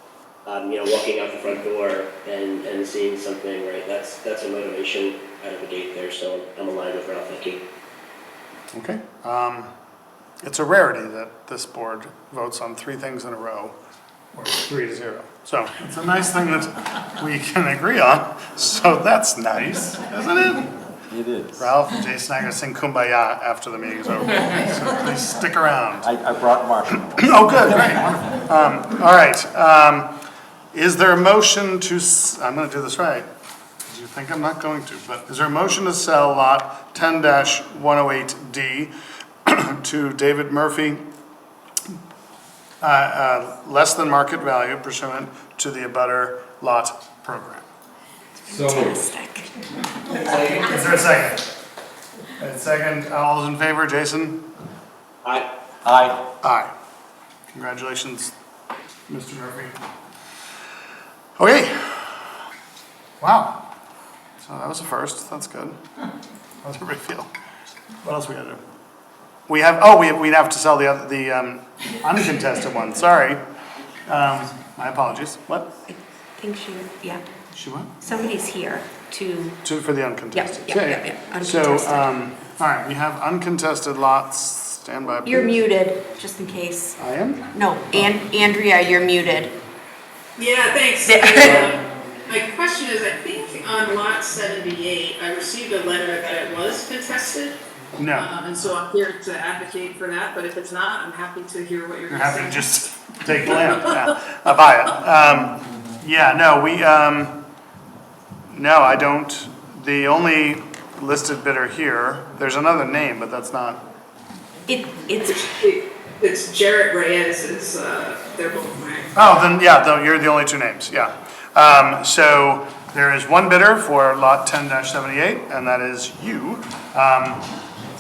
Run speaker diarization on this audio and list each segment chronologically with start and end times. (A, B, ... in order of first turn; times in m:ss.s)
0:00.4-0:07.6 A
0:08.7-0:09.7 B
0:10.4-0:13.8 B
0:14.3-0:20.7 B
0:21.1-0:21.7 C
0:21.6-0:26.1 B
0:26.0-0:28.0 C
0:27.2-0:30.1 B
0:30.7-0:33.3 B
0:33.9-0:38.9 B
0:39.5-0:41.0 B
0:42.8-0:47.7 B
0:48.5-0:49.5 D
0:48.5-0:49.1 C
0:50.1-0:50.8 A
0:50.6-0:51.4 B
0:52.4-0:54.4 B
0:55.8-0:56.2 C
0:56.4-0:56.7 B
0:57.5-0:58.3 B
0:59.1-0:59.8 B
1:01.4-1:02.2 B
1:03.2-1:03.6 B
1:04.4-1:05.8 B
1:06.6-1:07.3 B
1:08.0-1:08.6 B
1:09.5-1:13.4 B
1:14.1-1:15.8 B
1:15.9-1:17.2 D
1:17.5-1:17.9 B
1:18.0-1:19.6 D
1:19.6-1:25.7 B
1:20.3-1:22.1 D
1:25.2-1:27.0 D
1:27.0-1:27.5 B
1:27.5-1:29.5 D
1:30.4-1:31.8 E
1:31.0-1:31.7 D
1:32.3-1:37.5 E
1:38.0-1:38.3 B
1:38.1-1:42.7 E
1:42.1-1:47.4 B
1:43.5-1:44.1 E
1:48.5-1:53.8 B
1:54.7-1:55.4 D
1:55.3-1:59.1 E
1:59.1-2:07.5 B